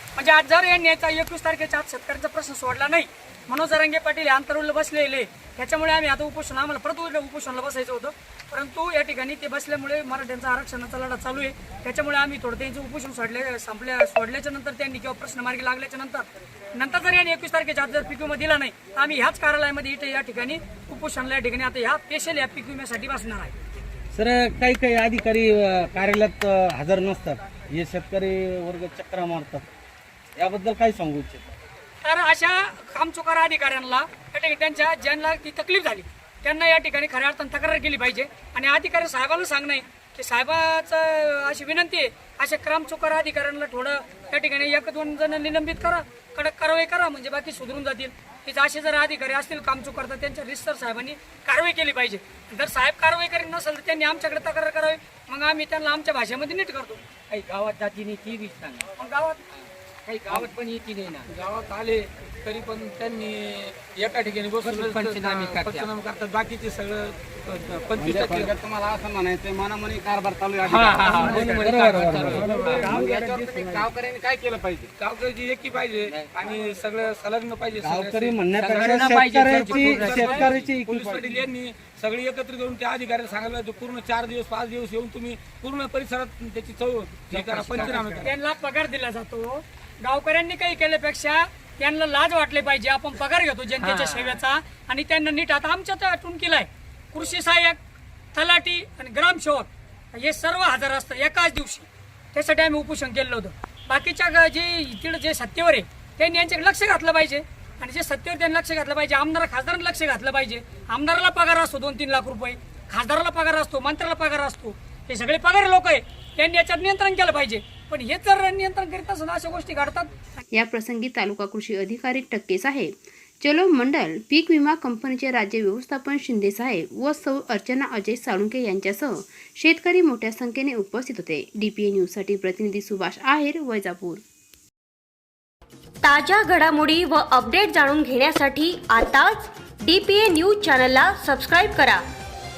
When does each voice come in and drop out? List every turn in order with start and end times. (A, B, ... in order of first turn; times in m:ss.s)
0:00.2-0:23.6 A
0:24.1-0:29.7 B
0:30.4-0:31.5 B
0:32.0-0:57.0 A
0:57.3-0:58.9 C
0:59.0-0:59.4 A
0:59.6-1:01.3 C
1:01.3-1:08.5 D
1:04.6-1:05.9 C
1:08.0-1:11.7 E
1:10.6-1:13.8 C
1:11.0-1:13.0 D
1:11.5-1:12.7 B
1:12.7-1:14.9 E
1:15.0-1:28.3 D
1:17.8-1:21.2 B
1:18.5-1:20.5 C
1:27.3-1:28.3 C
1:28.2-1:37.8 A
1:33.8-1:34.4 C
1:38.3-2:00.1 A
2:00.5-2:14.2 F
2:16.0-2:22.0 G